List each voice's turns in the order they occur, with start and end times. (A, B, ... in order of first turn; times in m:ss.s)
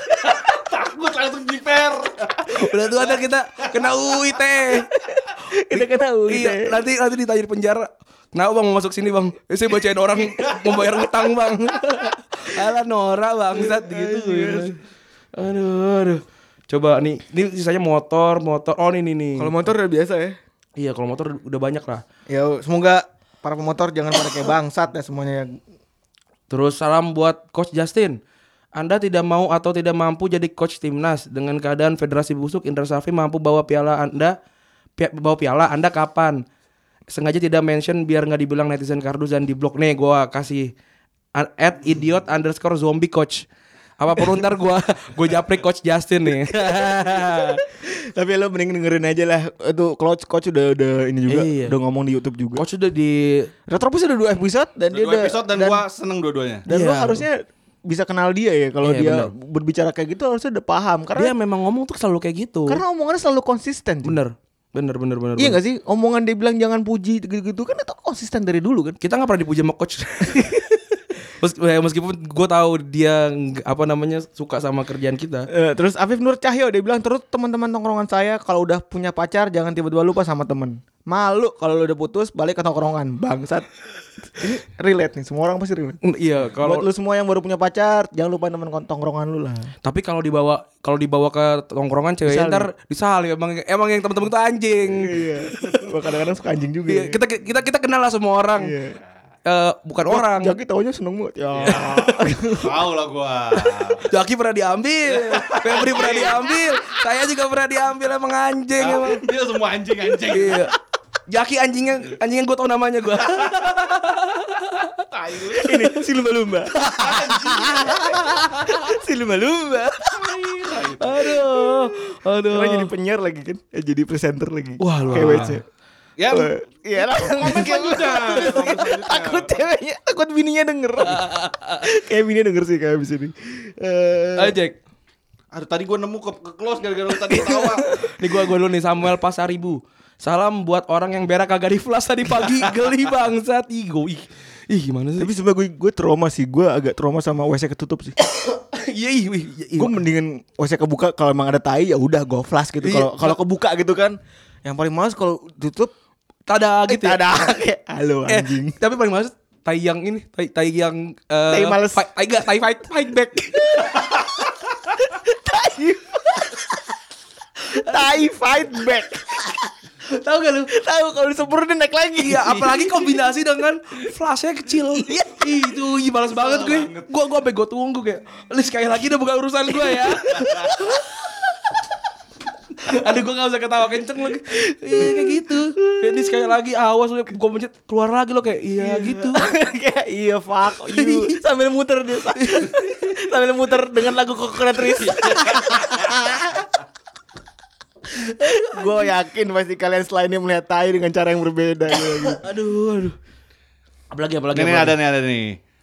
0:00.1-0:03.1 A
0:02.5-0:04.9 B
0:04.9-0:06.8 C
0:05.8-0:14.8 B
0:13.5-0:14.8 C
0:15.4-0:19.6 B
0:19.4-0:20.4 C
0:20.8-0:22.0 B
0:22.3-0:25.6 C
0:26.5-0:28.2 B
0:28.8-0:34.4 B
0:35.0-0:36.4 B
0:37.1-0:40.7 B
0:41.4-0:43.5 B
0:44.0-0:47.6 B
0:46.5-0:52.6 C
0:51.3-0:51.8 B
0:52.6-0:53.5 B
0:53.7-0:55.8 C
0:54.9-0:56.7 A
0:56.7-1:01.3 C
0:56.7-0:57.3 B
0:58.8-0:59.3 B
1:01.2-1:02.8 B
1:02.7-1:04.2 C
1:04.0-1:05.6 B
1:05.4-1:09.0 C
1:09.0-1:15.5 B
1:15.5-1:23.7 C
1:24.3-1:26.0 C
1:26.0-1:26.9 B
1:26.6-1:29.7 C
1:29.8-1:35.1 B
1:32.3-1:32.7 C
1:34.9-1:37.2 C
1:36.9-1:38.7 B
1:38.6-1:39.0 C
1:39.5-1:40.6 B
1:40.1-1:42.8 C
1:41.5-1:44.1 A
1:44.1-1:49.2 B
1:45.1-1:46.7 A
1:48.8-1:50.7 A
1:50.3-1:50.7 B
1:51.3-1:55.0 B
1:53.3-1:53.7 A
1:55.1-1:55.7 A
1:55.5-2:00.5 C
1:55.6-1:55.9 B
1:56.8-1:58.4 A
2:00.1-2:01.2 A
2:01.0-2:02.9 B
2:02.4-2:05.6 C
2:04.8-2:05.6 B
2:05.1-2:05.5 A
2:06.2-2:06.5 A
2:06.3-2:11.3 C
2:07.3-2:09.5 A
2:11.0-2:11.9 B
2:11.8-2:14.6 C
2:14.4-2:14.8 B
2:15.5-2:17.9 A
2:17.3-2:17.9 C
2:18.0-2:25.3 B
2:25.2-2:28.2 C
2:28.4-2:30.0 B
2:29.8-2:35.9 C
2:32.8-2:33.4 B
2:36.5-2:37.2 B
2:36.9-2:38.8 C
2:38.3-2:43.9 B
2:41.5-2:42.0 C
2:43.8-2:44.1 C
2:45.0-2:46.8 C
2:47.7-2:49.7 C
2:47.8-2:48.2 B
2:50.1-2:50.7 B
2:50.7-2:53.2 C
2:52.2-3:01.0 B
2:54.9-2:55.6 C
2:56.3-2:57.1 A
3:00.4-3:00.8 A
3:02.8-3:09.4 B
3:04.8-3:06.5 C
3:08.8-3:16.7 C
3:10.9-3:11.4 B
3:12.4-3:12.9 B
3:15.0-3:16.0 A
3:18.3-3:19.0 B
3:18.4-3:22.4 C
3:22.2-3:23.2 B
3:24.1-3:25.0 B
3:24.5-3:25.6 A